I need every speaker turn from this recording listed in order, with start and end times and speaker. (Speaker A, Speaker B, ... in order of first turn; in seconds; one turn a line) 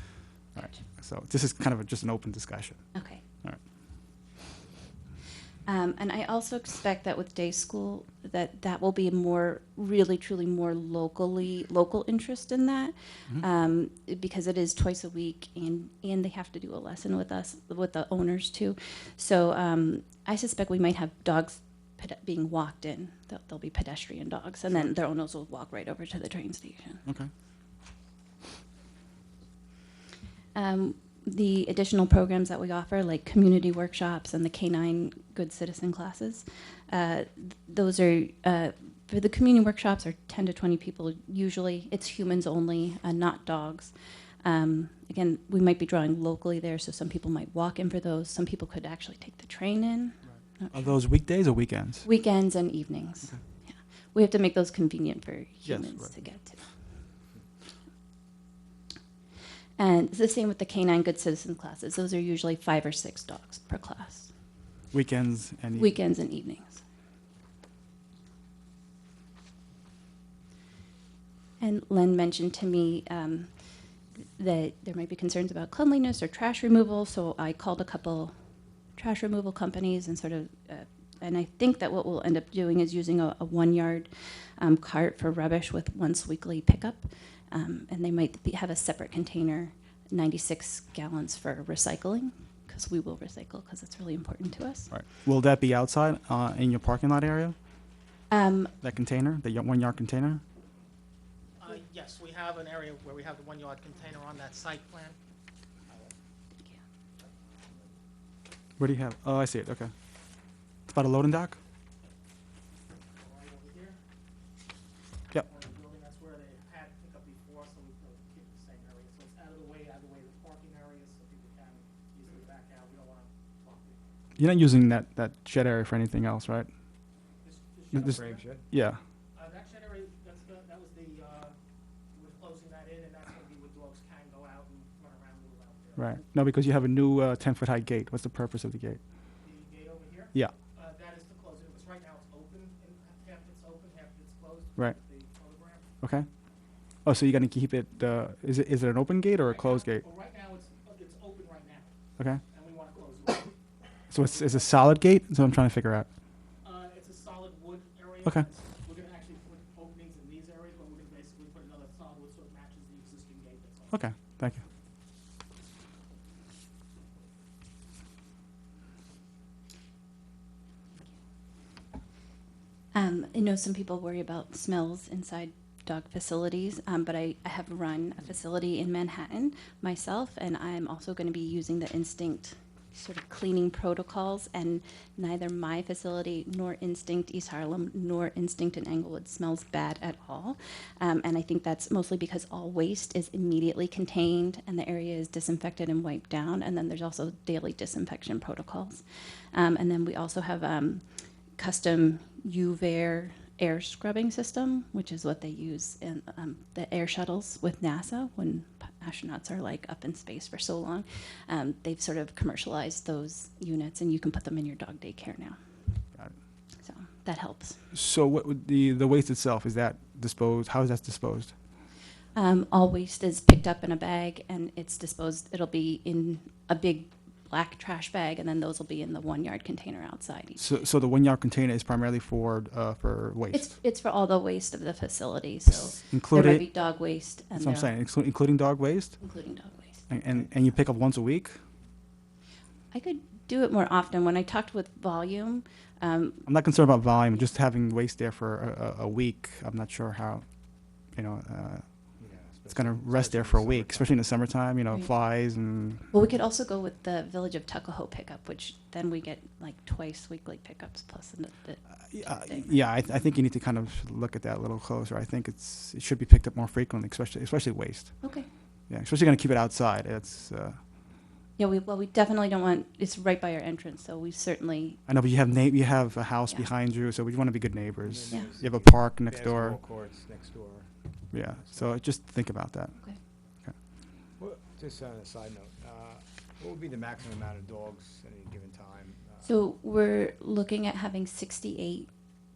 Speaker A: 0.6-2.8
Speaker B: 3.0-3.2
Speaker B: 5.7-27.0
Speaker B: 30.5-43.9
Speaker B: 44.4-51.0
Speaker A: 50.7-52.1
Speaker B: 52.0-56.6
Speaker A: 55.6-56.2
Speaker B: 59.8-64.3
Speaker A: 64.9-66.0
Speaker B: 65.8-66.8
Speaker B: 71.6-73.5
Speaker B: 74.2-78.3
Speaker B: 79.0-94.9
Speaker A: 94.9-97.6
Speaker B: 98.3-98.7
Speaker A: 98.8-100.4
Speaker C: 101.6-105.2
Speaker A: 108.8-109.9
Speaker A: 110.9-111.6
Speaker C: 113.1-114.0
Speaker C: 115.4-124.2
Speaker A: 124.4-126.7
Speaker C: 127.4-128.5
Speaker D: 127.9-128.7
Speaker A: 128.7-129.0
Speaker C: 129.3-131.6
Speaker C: 132.1-136.2
Speaker A: 136.0-139.0
Speaker C: 139.4-145.8
Speaker A: 146.0-146.3
Speaker A: 147.1-150.0
Speaker C: 149.4-151.9
Speaker C: 152.5-153.6
Speaker C: 154.1-154.9
Speaker A: 154.1-156.1
Speaker C: 156.6-164.1
Speaker A: 163.9-164.6
Speaker B: 172.9-201.0
Speaker B: 201.6-215.6
Speaker B: 216.8-217.8
Speaker A: 217.9-221.6
Speaker B: 222.3-230.6
Speaker A: 230.6-233.7
Speaker B: 233.5-237.9
Speaker A: 236.1-236.7
Speaker A: 237.6-239.2
Speaker B: 239.2-240.1
Speaker A: 240.1-241.6
Speaker B: 242.9-246.4
Speaker A: 246.5-250.4
Speaker A: 251.2-251.8
Speaker D: 252.2-254.2
Speaker A: 252.7-256.1
Speaker B: 256.1-262.8
Speaker A: 262.1-268.4
Speaker B: 268.2-268.5
Speaker A: 268.9-270.8
Speaker B: 271.6-275.0
Speaker A: 275.1-279.8
Speaker D: 278.0-280.9
Speaker A: 281.3-282.9
Speaker D: 281.5-281.9
Speaker D: 284.4-289.5
Speaker B: 289.4-292.1